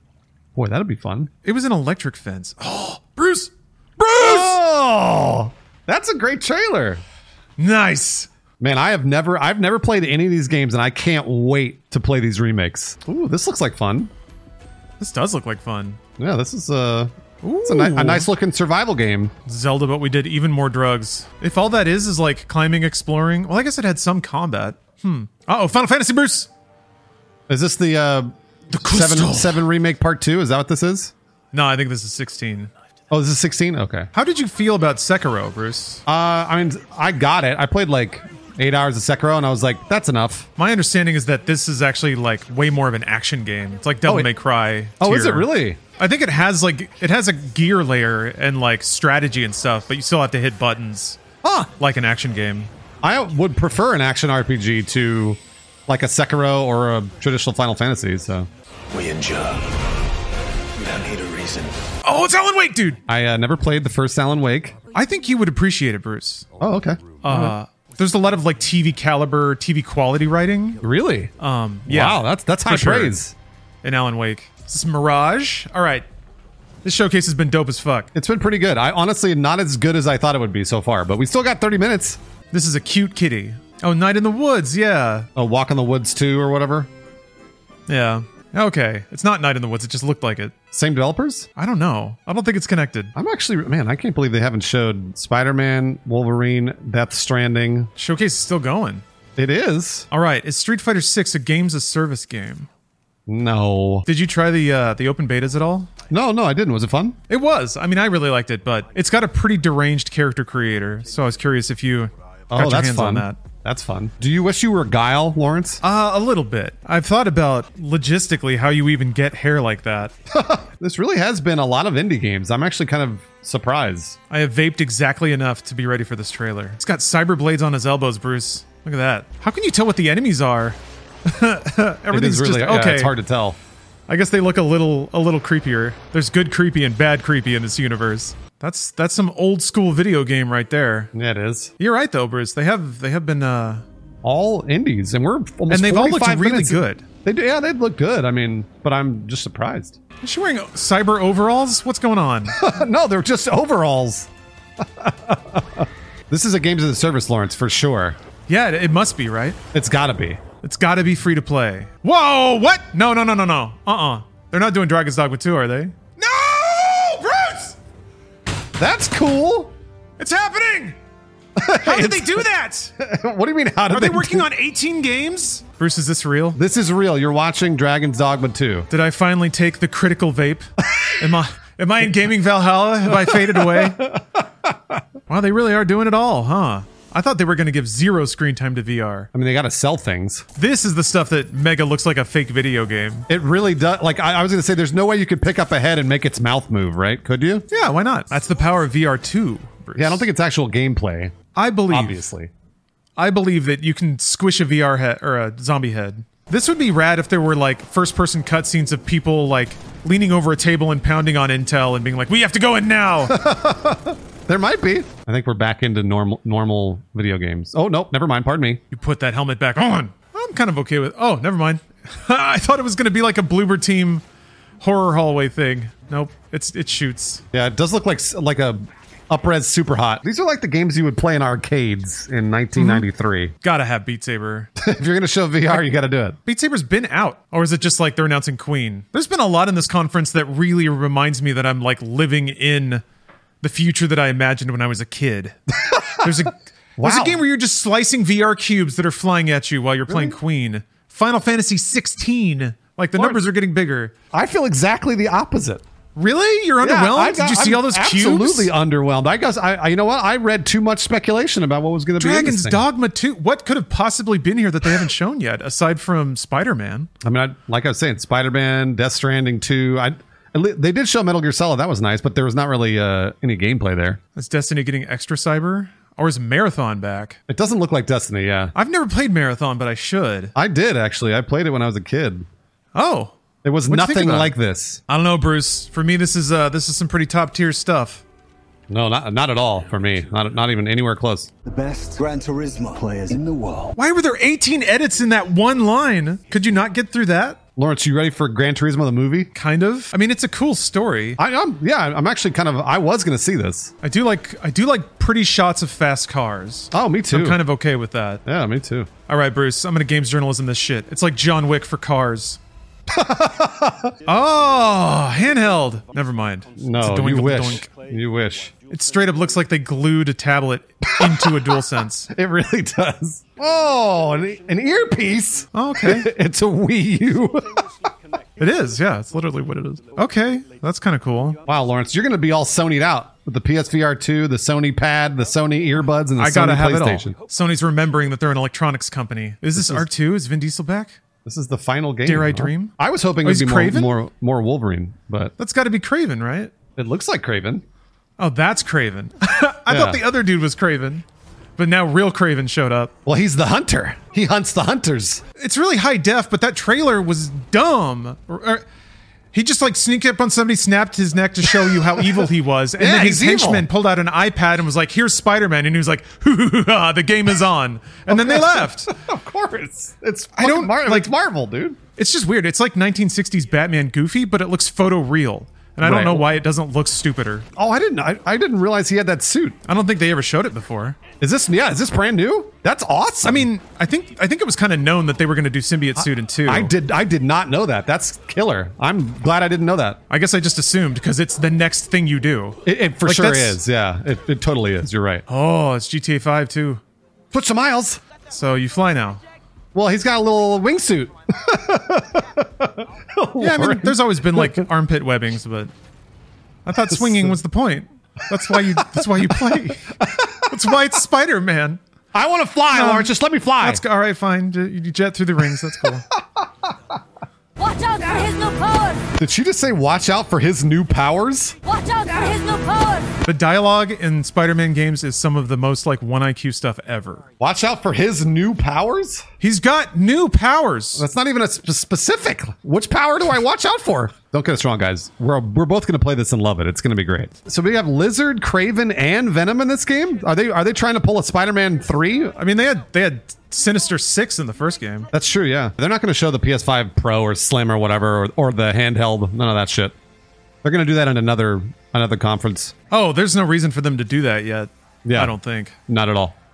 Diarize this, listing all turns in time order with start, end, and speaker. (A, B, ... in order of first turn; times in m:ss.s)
0:00.6-0:01.3 A
0:01.4-0:04.6 B
0:04.2-0:07.0 A
0:07.6-0:08.3 B
0:08.6-0:14.1 A
0:15.0-0:16.0 B
0:16.2-0:17.1 A
0:17.4-0:18.3 B
0:17.6-0:19.3 A
0:19.4-0:26.5 B
0:27.5-0:31.1 A
0:28.7-0:29.6 B
0:31.5-0:32.7 B
0:33.1-0:34.1 A
0:34.1-0:36.0 B
0:36.0-0:40.5 A
0:40.6-0:52.7 B
0:45.0-0:45.8 A
0:53.0-0:58.5 A
0:58.9-0:59.7 C
1:00.8-1:01.8 C
1:02.0-1:03.0 B
1:03.1-1:04.8 A
1:04.9-1:06.5 B
1:06.6-1:07.6 A
1:07.2-1:10.8 B
1:10.8-1:11.3 A
1:11.4-1:13.2 B
1:11.8-1:13.3 A
1:13.8-1:16.0 B
1:16.8-1:18.1 B
1:18.1-1:22.2 A
1:22.5-1:25.3 B
1:25.4-1:26.9 A
1:27.9-1:30.5 B
1:30.7-1:31.5 A
1:31.6-1:33.1 B
1:33.2-1:37.9 A
1:38.0-1:39.0 B
1:39.4-1:40.1 A
1:40.1-1:42.7 B
1:43.3-1:44.0 A
1:44.0-1:45.9 B
1:46.1-1:47.2 A
1:47.3-1:53.4 B
1:52.5-1:55.8 A
1:55.8-2:00.1 B
2:00.3-2:04.2 A
2:04.3-2:13.1 B
2:12.1-2:13.6 A
2:14.1-2:21.1 B
2:21.1-2:21.7 A
2:21.8-2:23.8 B
2:24.2-2:30.0 A
2:25.7-2:27.0 B
2:30.2-2:32.6 B
2:32.5-2:34.3 A
2:34.8-2:38.2 A
2:38.5-2:39.6 B
2:39.7-2:40.4 A
2:40.6-2:47.8 B
2:48.8-2:49.7 A
2:50.2-2:51.0 B
2:51.6-2:52.5 A
2:51.8-2:52.9 B
2:53.0-2:54.5 A
2:53.9-2:56.6 B
2:56.5-2:58.9 A
2:58.9-3:04.1 B
3:03.2-3:05.0 A
3:05.3-3:09.3 B
3:09.3-3:10.4 A
3:10.6-3:13.3 B
3:13.3-3:17.6 A
3:17.7-3:20.2 B
3:20.0-3:21.3 A
3:21.5-3:22.2 B
3:21.9-3:22.5 A
3:23.2-3:33.4 B
3:33.3-3:38.8 A
3:38.9-3:44.2 B
3:44.8-3:47.4 B
3:47.5-3:53.5 A
3:52.8-3:53.1 B
3:53.6-3:54.7 B
3:54.8-3:56.4 A
3:56.4-4:03.0 B
4:03.6-4:14.1 B
4:05.8-4:07.4 A
4:10.1-4:10.4 A
4:13.2-4:13.4 A
4:14.3-4:15.8 A
4:16.2-4:18.7 B
4:16.8-4:22.8 A
4:22.2-4:27.1 B
4:27.2-4:34.2 A
4:34.4-4:37.4 B
4:37.5-4:38.7 A
4:38.7-4:40.5 B
4:40.5-4:42.5 A
4:42.9-4:43.3 B
4:43.6-4:45.0 A
4:43.9-4:44.5 B
4:45.1-4:48.2 B
4:48.9-4:51.5 A
4:51.6-4:54.0 C
4:54.0-4:57.6 B
4:57.8-4:59.5 A
4:59.5-5:01.4 B
5:01.4-5:03.9 A
5:04.0-5:08.4 B
5:06.9-5:07.6 A
5:08.4-5:09.1 A
5:09.3-5:12.6 B
5:13.1-5:14.2 A
5:14.2-5:17.9 B
5:16.8-5:18.7 A
5:18.9-5:22.3 B
5:21.1-5:27.8 A
5:25.7-5:26.3 B
5:28.6-5:31.6 B
5:31.6-5:37.3 A
5:36.4-5:41.2 B
5:39.7-5:40.0 A
5:41.4-5:45.5 A
5:42.2-5:44.1 B
5:45.6-5:46.7 B
5:47.0-5:47.8 A
5:48.4-5:51.2 B
5:49.9-5:50.2 A
5:51.8-5:53.1 B
5:53.2-5:55.4 A
5:55.6-5:58.8 B
5:59.5-6:09.1 B
6:01.7-6:02.4 A
6:03.0-6:03.9 A
6:08.3-6:12.0 A
6:10.6-6:11.3 B
6:12.2-6:17.7 B
6:16.0-6:16.5 A
6:17.8-6:19.8 A
6:19.9-6:21.2 B
6:21.4-6:23.7 A
6:23.4-6:26.9 B
6:26.6-6:30.2 A
6:30.3-6:33.8 B
6:32.8-6:35.4 A
6:35.5-6:37.0 B
6:37.5-6:38.2 A
6:38.5-6:39.4 B
6:39.9-6:44.8 A
6:43.6-6:45.9 B
6:46.8-6:52.0 B
6:47.1-6:47.6 A
6:48.5-6:50.8 A
6:52.3-6:54.0 A
6:52.9-6:56.2 B
6:55.7-6:57.0 A
6:57.8-6:59.2 D
6:59.4-7:01.8 A
7:02.0-7:03.3 D
7:03.4-7:07.4 B
7:07.6-7:09.4 A
7:09.6-7:11.2 B
7:11.2-7:22.5 A
7:22.6-7:25.3 B
7:25.3-7:30.1 A
7:30.8-7:32.9 A
7:33.1-7:36.0 B
7:35.2-7:35.5 A
7:36.1-7:36.5 A